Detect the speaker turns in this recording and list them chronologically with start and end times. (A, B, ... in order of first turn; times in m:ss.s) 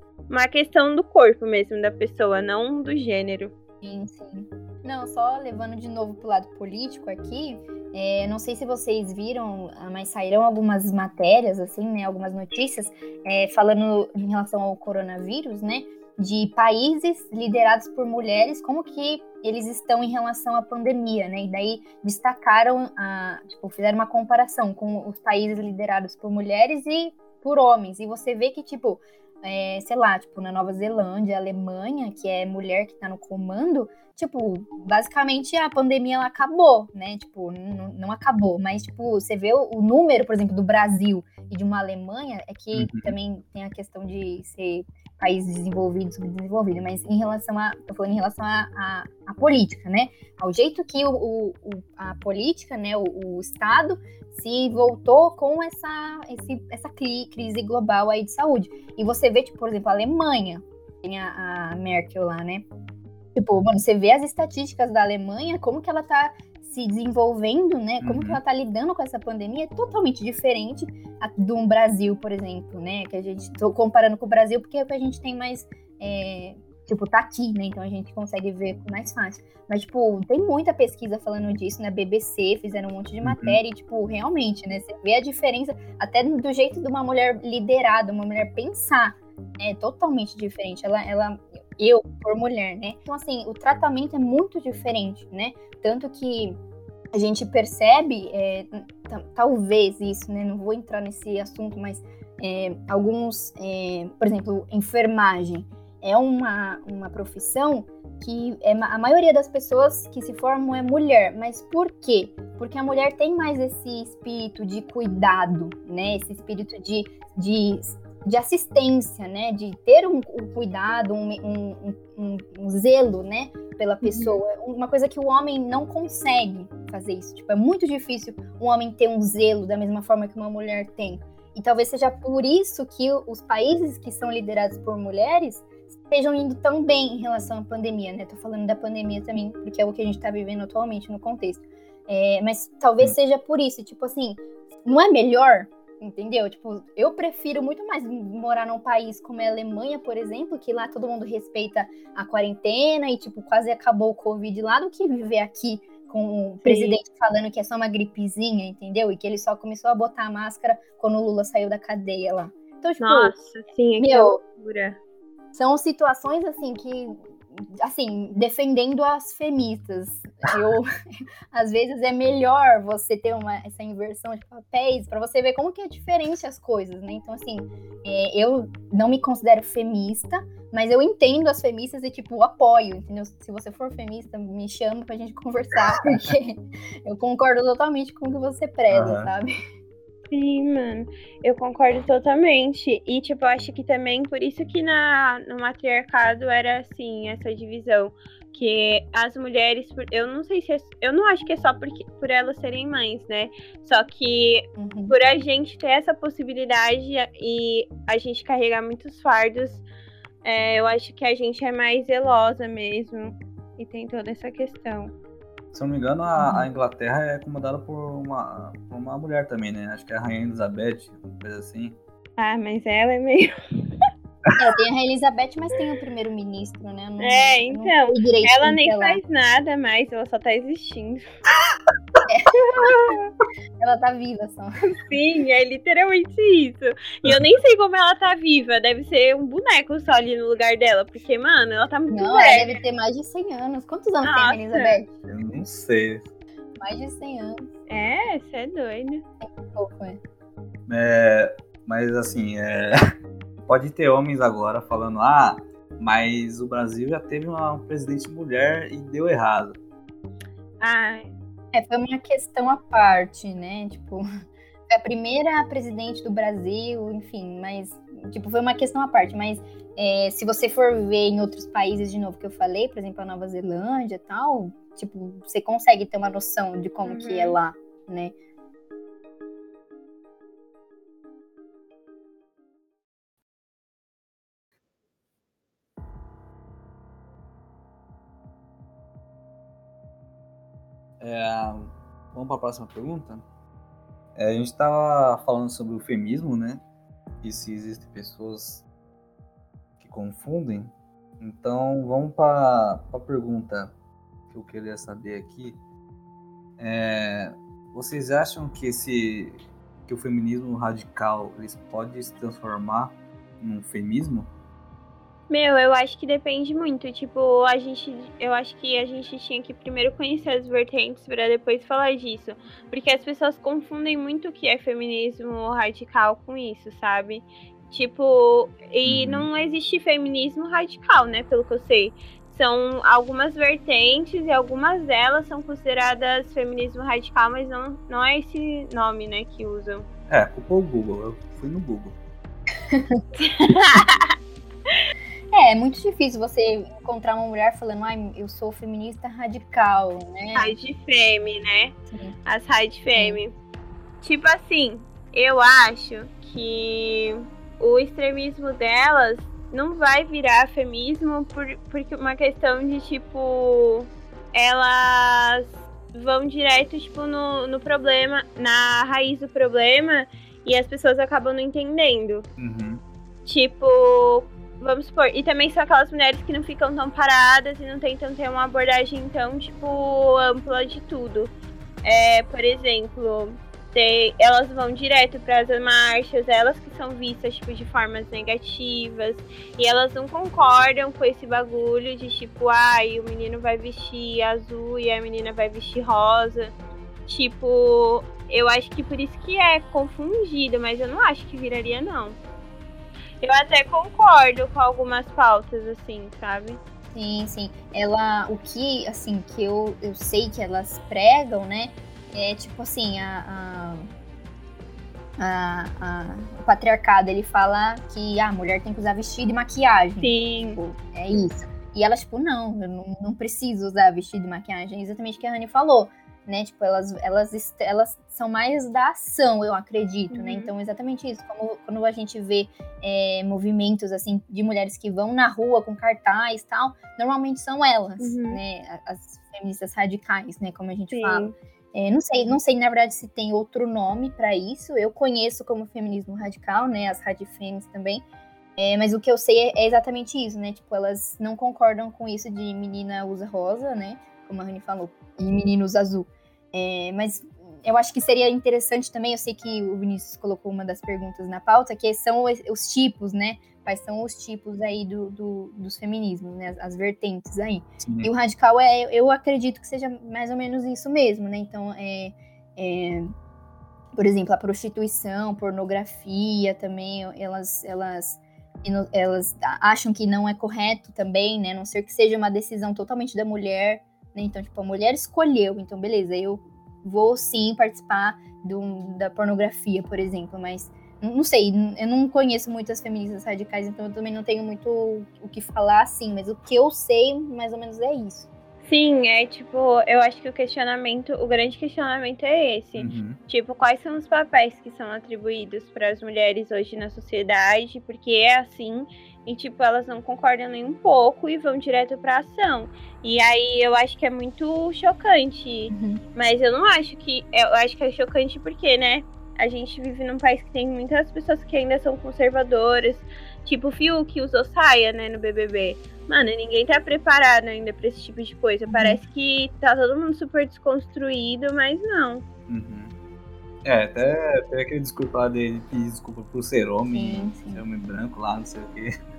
0:00.3-0:03.5 A
0:03.8-1:02.6 B
0:42.7-0:43.1 C
1:03.3-1:36.6 B
1:08.0-1:08.4 C
1:23.2-1:23.6 C
1:37.1-2:43.3 B
2:04.0-2:04.4 A
2:36.6-2:37.0 A
2:43.0-2:45.0 A
2:44.0-2:44.4 B
2:45.5-2:50.9 B
2:51.5-3:09.5 B
3:08.9-3:09.3 C
3:10.3-3:29.8 A
3:24.8-3:25.1 B
3:30.4-3:35.1 A
3:35.7-3:42.0 C
3:36.4-3:36.7 B
3:42.4-3:44.1 A
3:44.6-3:49.2 B
3:47.2-3:51.2 A
3:52.3-3:52.6 B
3:52.8-3:53.1 A
3:53.8-3:54.9 B
3:55.0-4:02.8 A
4:02.1-4:05.1 B
4:04.2-4:05.0 A
4:05.3-4:06.2 C
4:06.8-4:07.6 B
4:07.9-4:09.2 A
4:09.4-4:10.2 B
4:10.9-4:13.0 C
4:13.6-4:19.8 C
4:20.8-4:21.3 A
4:21.7-4:24.3 B
4:24.9-4:38.3 B
4:37.0-4:37.6 A
4:51.2-4:53.4 C
4:54.4-4:56.8 C
4:57.4-4:58.8 C
5:00.0-5:03.9 C
5:04.5-5:05.8 C
5:06.8-5:14.5 C
5:15.5-5:40.1 A
5:29.0-5:29.5 C
5:40.3-5:42.1 C
5:42.9-5:43.2 B
5:43.4-5:44.3 A
5:45.5-5:50.7 B
5:50.5-5:53.6 A
5:52.1-5:52.4 B
5:53.1-5:53.4 B
5:54.2-6:12.5 A
6:12.6-6:13.0 C
6:13.4-6:21.5 A
6:22.0-6:36.7 A
6:37.2-6:42.4 A
6:43.4-6:46.8 A
6:47.1-6:54.1 B
6:55.4-7:28.2 B
7:00.2-7:00.8 A
7:10.3-7:10.7 A
7:18.2-7:18.6 A
7:21.1-7:21.5 A
7:28.8-7:53.3 B
7:48.0-7:48.3 C
7:54.2-8:18.5 B
8:18.8-8:52.4 A
8:23.0-8:23.4 C
8:35.9-8:36.2 B
8:48.9-8:49.2 B
8:52.7-8:53.1 C
8:53.8-8:59.2 C
8:57.1-8:57.8 B